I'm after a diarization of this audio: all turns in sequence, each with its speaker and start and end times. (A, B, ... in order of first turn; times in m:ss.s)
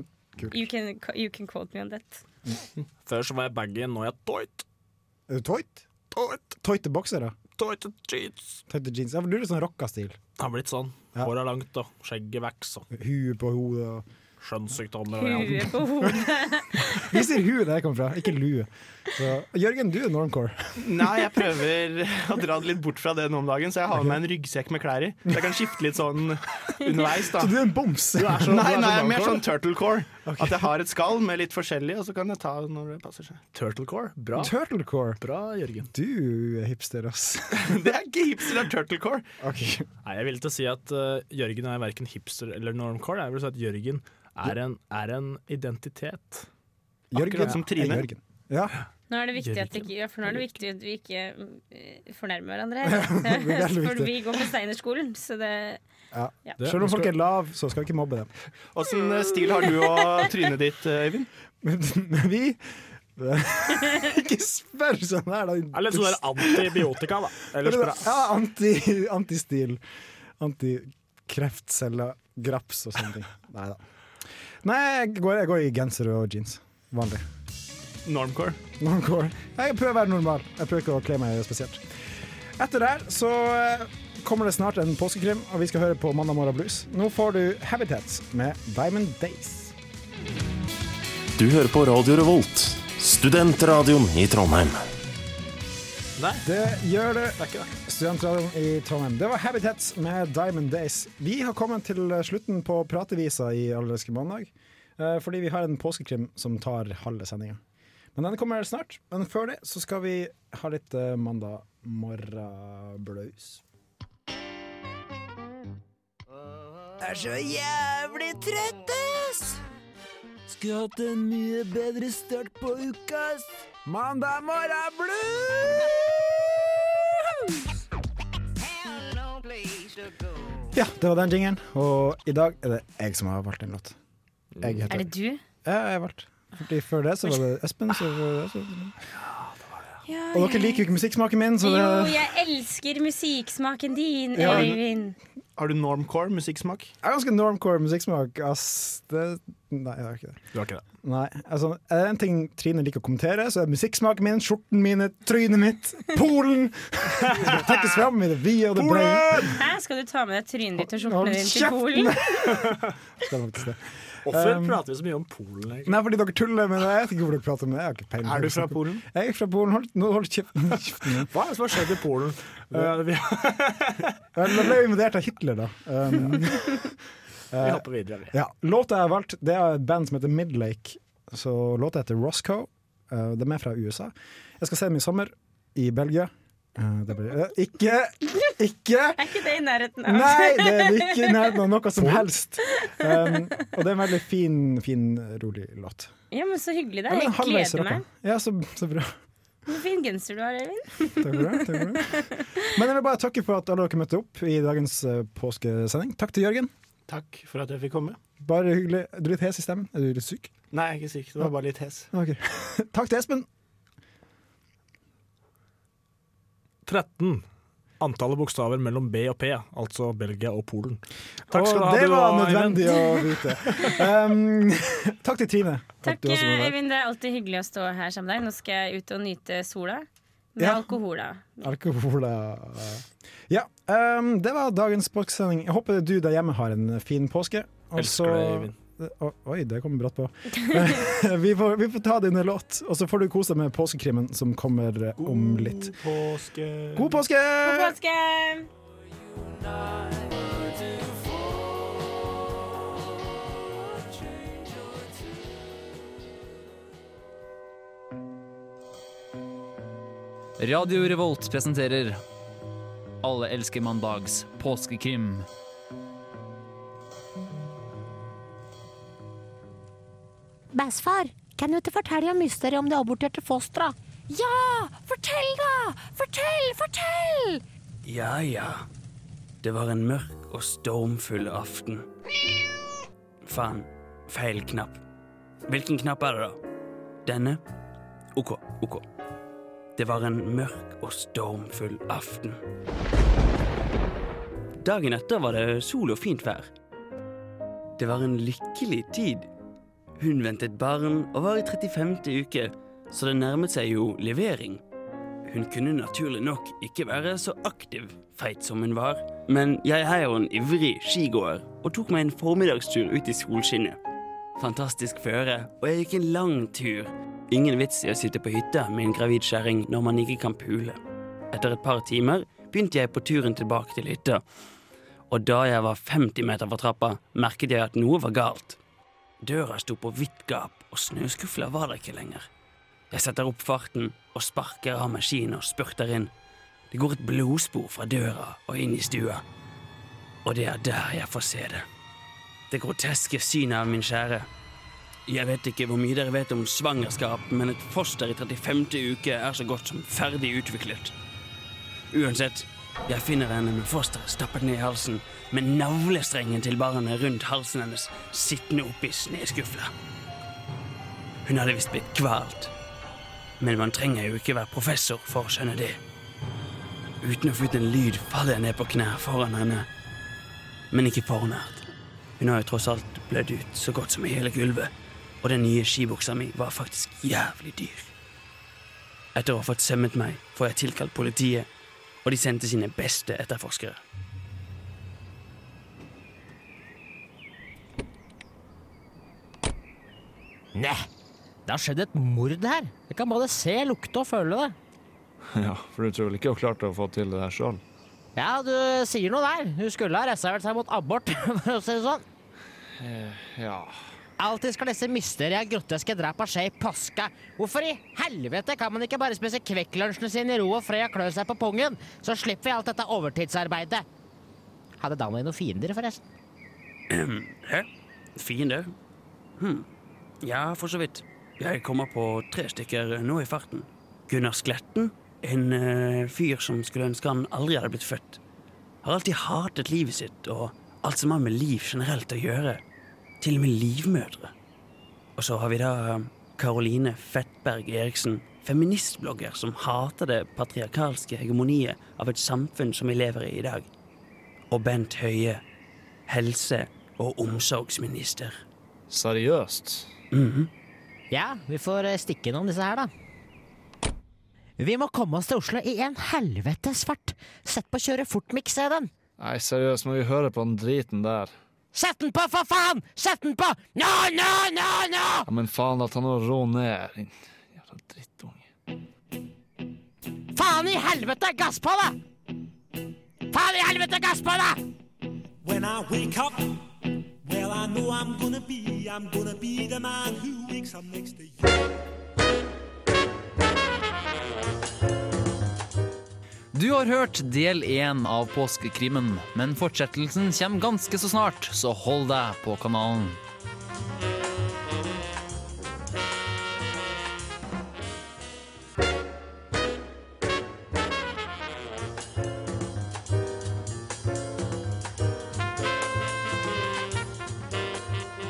0:00.5-0:02.2 A
0:03.0-0:04.6 B
0:05.3-0:05.9 C
0:06.1-0:06.4 B
0:06.6-0:07.4 C
0:07.6-0:08.6 B
0:08.7-0:10.2 C
0:10.4-0:12.9 B
0:12.9-0:14.0 C
0:14.4-0:15.8 B
0:15.2-0:16.8 A
0:16.0-0:16.3 C
0:16.8-0:21.1 C
0:20.8-0:27.5 D
0:27.3-0:28.9 C
0:28.2-0:29.4 B
0:28.5-0:33.4 D
0:30.2-0:30.7 C
0:33.5-0:34.5 B
0:34.4-0:35.2 C
0:35.2-0:35.9 B
0:35.9-0:37.9 C
0:37.6-0:39.2 D
0:39.4-0:39.9 C
0:40.0-0:46.5 B
0:47.1-0:48.8 C
0:47.1-0:48.1 D
0:49.1-0:55.8 A
0:49.4-0:49.9 B
0:52.8-0:54.2 C
0:56.1-0:58.3 C
0:56.6-0:57.1 B
0:58.7-1:01.3 D
1:01.6-1:02.6 C
1:03.2-1:07.0 C
1:05.7-1:08.3 B
1:07.6-1:09.8 C
1:10.4-1:13.8 C
1:14.6-1:17.2 C
1:18.0-1:18.6 D
1:18.8-1:21.8 C
1:22.6-1:29.7 C
1:31.4-1:34.8 E
1:36.2-1:36.4 B
1:36.4-1:47.6 C
1:37.4-1:37.7 B
1:48.1-1:53.6 C
1:57.0-1:59.5 C
2:00.8-2:03.0 C
2:03.8-2:05.8 C
2:10.7-2:14.0 C
2:14.6-2:15.1 C
2:14.9-2:15.4 A
2:15.6-2:18.9 C
2:20.1-2:20.9 A
2:20.3-2:22.2 C
2:21.6-2:25.2 A
2:24.3-2:24.8 C
2:25.6-2:26.9 D
2:27.0-2:30.4 C
2:30.5-2:30.8 B
2:31.0-2:39.6 C
2:37.3-2:37.8 B
2:38.8-2:39.5 B
2:39.5-2:42.2 A
2:40.8-2:44.8 C
2:44.2-2:45.9 B
2:45.8-2:51.3 C
2:48.2-2:49.0 D
2:51.3-2:54.1 B
2:54.3-2:56.9 C
2:57.5-3:09.3 C
2:57.6-2:58.3 B
3:09.2-3:11.6 A
3:10.0-3:16.1 C
3:12.8-3:13.3 A
3:16.3-3:18.0 A
3:17.1-3:19.1 C
3:19.6-3:22.6 A
3:21.2-3:26.7 C
3:27.1-3:28.2 D
3:28.4-3:30.5 C
3:30.7-3:32.1 D
3:32.1-3:33.5 C
3:36.8-3:37.4 B
3:38.0-3:44.0 B
3:41.5-3:46.8 C
3:46.0-3:51.7 A
3:50.6-3:50.9 C
3:51.6-4:05.9 C
3:57.9-3:58.7 B
4:05.2-4:07.2 D
4:07.0-4:08.0 C
4:07.6-4:08.7 A
4:20.6-4:22.2 F
4:23.2-4:25.4 F
4:30.7-4:37.6 G
4:38.0-4:38.8 H
4:39.6-4:42.0 H
4:43.4-4:45.0 H
4:45.7-4:46.6 H
4:47.2-4:47.6 H
4:48.4-4:49.0 H
4:50.0-4:52.6 H
4:54.8-4:56.7 H
4:58.0-4:59.5 H
5:00.2-5:04.8 H
5:05.4-5:14.0 H
5:14.6-5:21.0 H
5:21.5-5:24.4 H
5:25.3-5:28.8 H
5:29.4-5:32.5 H
5:33.1-5:36.3 H
5:36.9-5:39.4 H
5:40.4-5:41.8 H
5:42.7-5:44.5 H
5:45.3-5:51.1 H
5:52.1-5:59.9 H
6:01.4-6:02.7 H
6:03.6-6:06.0 H
6:07.2-6:09.9 H
6:10.9-6:11.8 H
6:12.4-6:18.1 H
6:19.3-6:21.7 H
6:22.2-6:24.0 H
6:30.7-6:31.1 I
6:31.6-6:34.7 I
6:35.5-6:37.8 J
6:38.4-6:42.2 I
6:43.0-6:44.0 J
6:44.4-6:54.0 I
6:55.0-6:56.2 I
6:57.1-6:58.9 H
6:59.6-6:59.9 H
7:00.4-7:08.4 H
7:09.0-7:12.8 H
7:13.4-7:14.5 H
7:15.4-7:23.9 H
7:24.7-7:25.6 H
7:26.3-7:28.6 H
7:29.1-7:30.1 J
7:30.3-7:30.7 H
7:31.3-7:33.1 I
7:34.8-7:39.1 I
7:39.4-7:41.5 J
7:41.9-7:45.5 I
7:45.5-7:48.6 J
7:50.5-7:52.2 I
7:53.5-7:54.8 I
7:55.6-7:56.8 K
7:57.4-8:01.8 K
8:06.7-8:13.4 F